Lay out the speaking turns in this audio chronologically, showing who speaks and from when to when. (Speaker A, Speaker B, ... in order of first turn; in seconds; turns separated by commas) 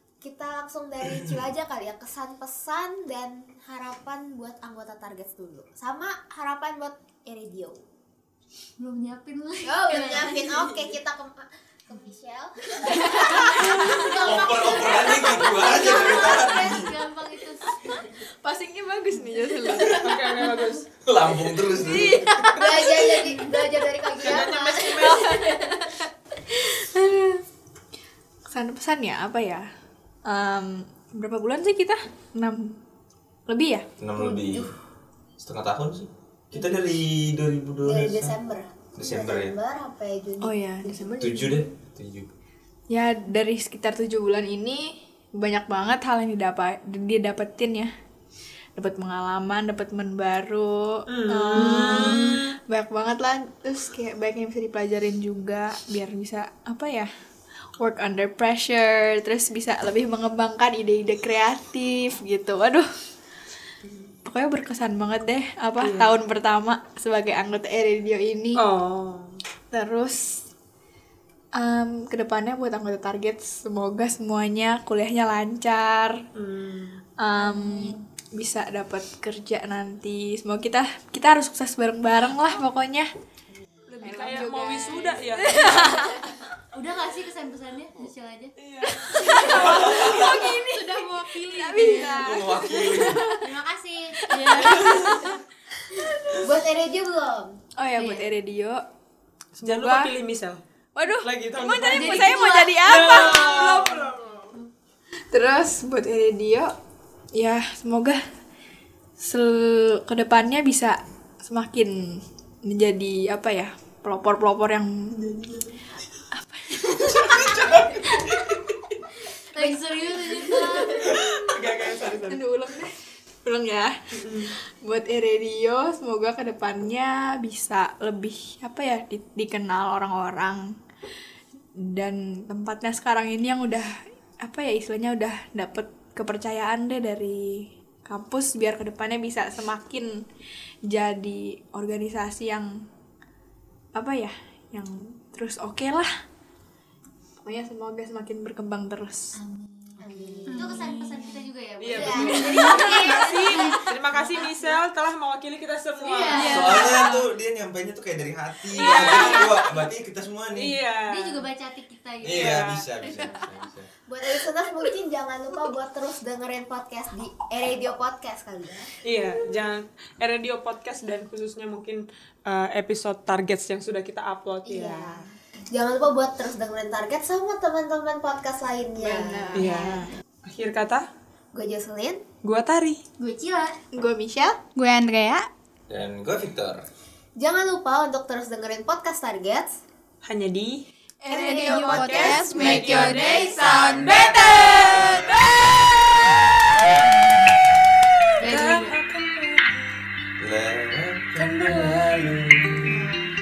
Speaker A: 0.2-7.8, Speaker B: 8.8-10.7, Speaker A: 9.6-14.0, Speaker B: 12.9-18.0, Speaker C: 13.9-16.9, Speaker A: 14.7-15.0, Speaker A: 15.7-16.4, Speaker D: 17.8-20.0, Speaker E: 19.9-20.9, Speaker C: 21.0-22.6, Speaker D: 21.7-23.7, Speaker A: 22.4-25.2, Speaker E: 24.2-25.4, Speaker D: 25.0-27.4, Speaker D: 28.5-29.6, Speaker D: 30.2-32.8, Speaker D: 33.5-33.9, Speaker C: 34.0-34.7, Speaker A: 34.1-34.7, Speaker C: 35.4-38.3, Speaker A: 37.8-41.6, Speaker C: 39.0-39.5, Speaker D: 40.4-41.2, Speaker C: 41.2-42.3, Speaker D: 42.9-47.9, Speaker D: 48.8-57.1, Speaker E: 51.1-52.5, Speaker D: 57.8-62.9, Speaker E: 63.9-64.1, Speaker D: 64.2-68.6, Speaker E: 65.8-66.2, Speaker E: 68.5-69.4, Speaker D: 69.7-70.4, Speaker D: 71.6-76.2, Speaker E: 76.3-77.0, Speaker D: 77.2-83.1, Speaker B: 77.3-78.0, Speaker E: 83.9-86.0, Speaker D: 84.0-86.3, Speaker B: 86.7-88.5, Speaker E: 88.6-90.2, Speaker D: 88.8-93.5, Speaker B: 89.2-89.8, Speaker C: 90.0-90.3, Speaker F: 90.7-92.3, Speaker C: 92.0-93.2, Speaker B: 93.4-94.8, Speaker D: 94.2-95.4, Speaker F: 94.3-95.3, Speaker E: 94.7-95.1, Speaker A: 96.4-97.6, Speaker D: 97.8-98.8, Speaker B: 97.9-98.3, Speaker E: 99.6-100.6, Speaker D: 99.7-100.1, Speaker D: 100.9-104.5, Speaker E: 101.2-104.1, Speaker B: 101.8-103.3, Speaker D: 105.3-106.7, Speaker D: 107.3-108.2, Speaker D: 109.2-115.7, Speaker D: 116.3-118.1, Speaker C: 116.8-118.4, Speaker B: 119.5-121.2, Speaker D: 120.4-122.9, Speaker E: 121.5-122.4, Speaker D: 123.4-130.7, Speaker E: 124.1-124.5, Speaker D: 131.8-140.2, Speaker D: 140.9-142.8, Speaker D: 143.9-146.1, Speaker D: 147.4-149.4, Speaker B: 149.3-153.9, Speaker A: 150.0-150.8, Speaker F: 150.5-151.4, Speaker E: 151.8-156.8, Speaker A: 151.9-153.6, Speaker D: 152.3-153.7, Speaker B: 156.0-156.9, Speaker D: 156.4-157.2, Speaker C: 156.5-160.8, Speaker E: 158.7-159.6, Speaker B: 158.9-159.5, Speaker E: 160.5-161.4, Speaker B: 161.1-162.8, Speaker C: 162.2-163.9, Speaker E: 162.3-162.8, Speaker A: 164.1-168.9, Speaker E: 169.0-175.2, Speaker A: 174.7-180.0, Speaker D: 179.0-180.1, Speaker E: 179.6-179.9, Speaker E: 180.4-181.1, Speaker A: 181.5-182.2, Speaker E: 182.4-183.0, Speaker B: 183.2-183.8, Speaker D: 183.9-184.6, Speaker F: 184.8-185.5, Speaker C: 185.9-186.8, Speaker A: 187.4-189.8, Speaker E: 190.2-190.8, Speaker D: 191.2-195.9, Speaker A: 191.3-193.9, Speaker F: 191.4-194.3, Speaker E: 192.5-193.1, Speaker C: 194.1-195.3, Speaker C: 196.8-197.1, Speaker B: 198.4-198.9, Speaker E: 198.4-200.0, Speaker C: 200.4-203.0, Speaker E: 201.4-202.2, Speaker B: 202.9-203.3